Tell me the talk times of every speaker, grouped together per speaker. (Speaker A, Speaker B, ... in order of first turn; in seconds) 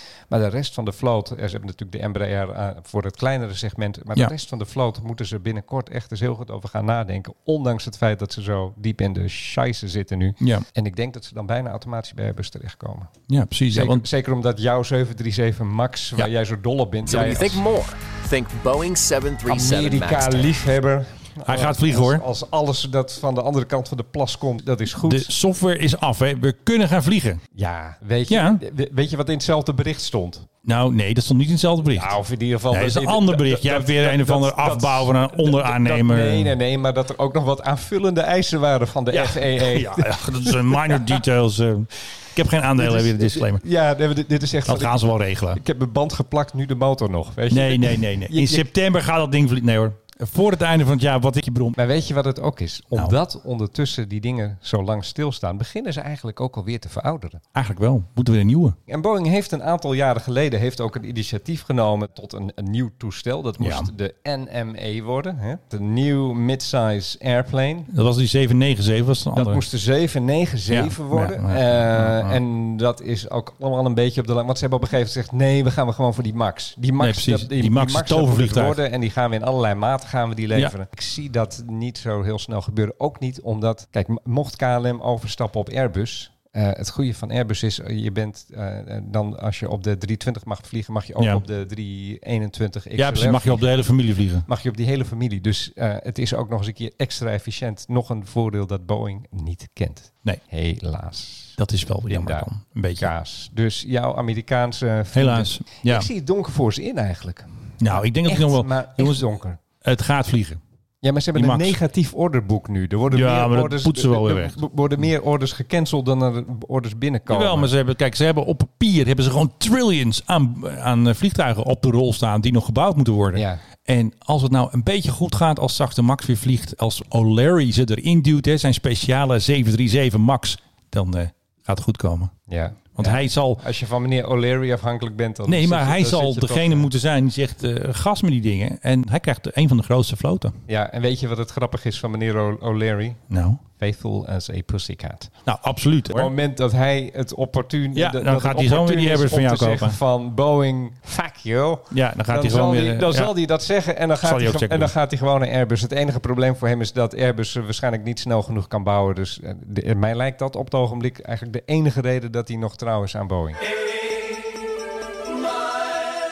Speaker A: 0.3-13.1, 13.7-17.6, 19.5-25.3, 27.5-30.5, 31.9-41.2, 42.8-48.6, 51.8-57.4, 58.9-67.9, 69.3-93.7, 94.5-109.6, 111.0-117.7, 123.3-123.6, 132.5-136.9, 140.7-143.2, 143.8-145.3, 146.1-163.6
Speaker B: 13.3-14.0, 21.4-22.2, 25.0-27.4, 28.3-28.6, 30.6-32.1, 32.7-36.5, 39.1-43.6, 44.7-45.6, 47.5-51.8, 57.5-58.8, 63.6-63.9, 67.9-69.6, 70.7-72.4, 77.0-78.8, 93.0-94.5, 101.6-103.1, 105.1-106.1, 107.8-109.2, 109.8-110.6, 111.3-111.7, 113.1-114.6, 117.3-132.3, 132.9-133.6, 135.5-140.6, 143.3-143.6, 145.4-146.3, 147.9-150.0, 151.9-153.3, 154.2-154.9
Speaker C: 17.0-20.6